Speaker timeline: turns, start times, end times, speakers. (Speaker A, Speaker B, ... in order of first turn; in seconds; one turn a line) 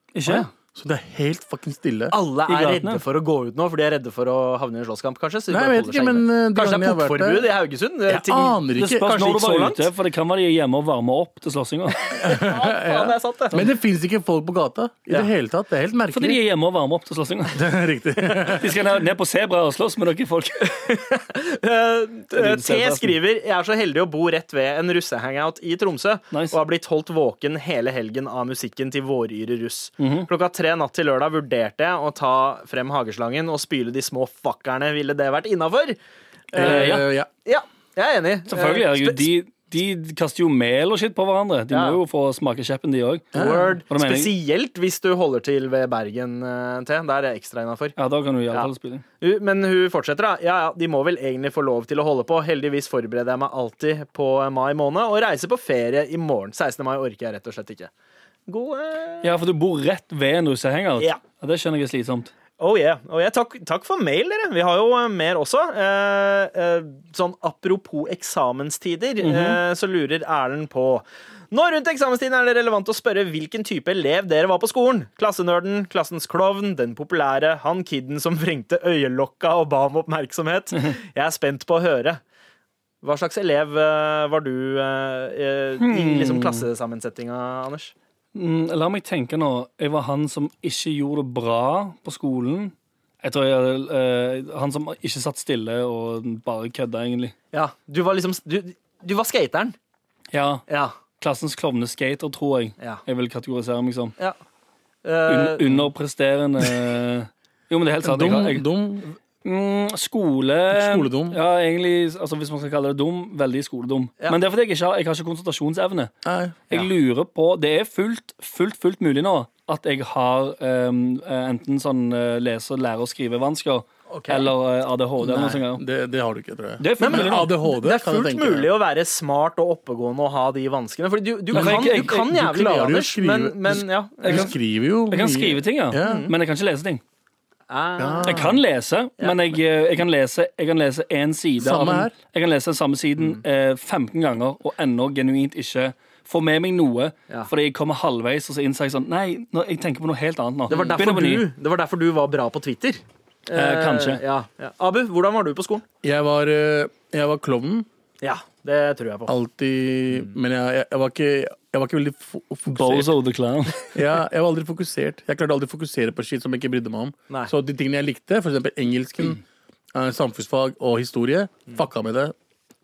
Speaker A: 0.1-0.5
Speaker B: 0.7-2.1
Speaker C: 2.1-9.9
Speaker A: 2.5-3.0
Speaker B: 5.5-7.5
Speaker B: 8.1-9.1
Speaker A: 8.8-12.0
Speaker C: 12.0-13.7
Speaker B: 12.2-16.4
Speaker A: 16.1-17.6
Speaker B: 17.5-18.7
Speaker A: 18.4-20.8
Speaker C: 20.7-36.0
Speaker A: 22.3-23.1
Speaker A: 26.3-26.6
Speaker A: 30.0-30.3
Speaker B: 36.5-37.3
Speaker C: 36.5-39.3
Speaker A: 36.6-37.0
Speaker A: 38.5-43.4
Speaker C: 41.7-42.0
Speaker B: 43.3-43.8
Speaker C: 43.3-47.9
Speaker A: 43.9-44.3
Speaker A: 48.0-49.0
Speaker C: 48.5-57.9
Speaker C: 58.5-59.3
Speaker A: 59.2-62.3
Speaker C: 62.6-82.2
Speaker A: 69.2-69.6
Speaker C: 83.0-87.9
Speaker A: 85.8-86.7
Speaker A: 88.3-97.3
Speaker C: 97.5-99.7
Speaker A: 100.3-100.7
Speaker C: 100.7-101.0
Speaker A: 101.2-104.2
Speaker C: 105.0-105.9
Speaker A: 105.3-108.7
Speaker B: 108.0-109.0
Speaker A: 109.4-116.1
Speaker B: 110.7-111.4
Speaker B: 116.2-116.6
Speaker A: 116.7-125.8
Speaker C: 124.1-124.5
Speaker B: 125.3-128.7
Speaker A: 126.8-127.5
Speaker C: 127.0-134.5
Speaker A: 131.5-132.3
Speaker B: 131.5-136.3
Speaker A: 134.2-134.5
Speaker A: 135.1-137.0
Speaker C: 136.0-136.3
Speaker C: 137.7-138.4
Speaker B: 138.0-138.6
Speaker A: 138.2-151.5
Speaker B: 141.6-142.1
Speaker C: 150.7-155.8
Speaker A: 153.5-154.2
Speaker B: 156.0-157.8
Speaker C: 158.2-159.3
Speaker B: 159.3-163.1
Speaker A: 162.7-163.9
Speaker B: 163.9-169.4
Speaker B: 169.9-172.3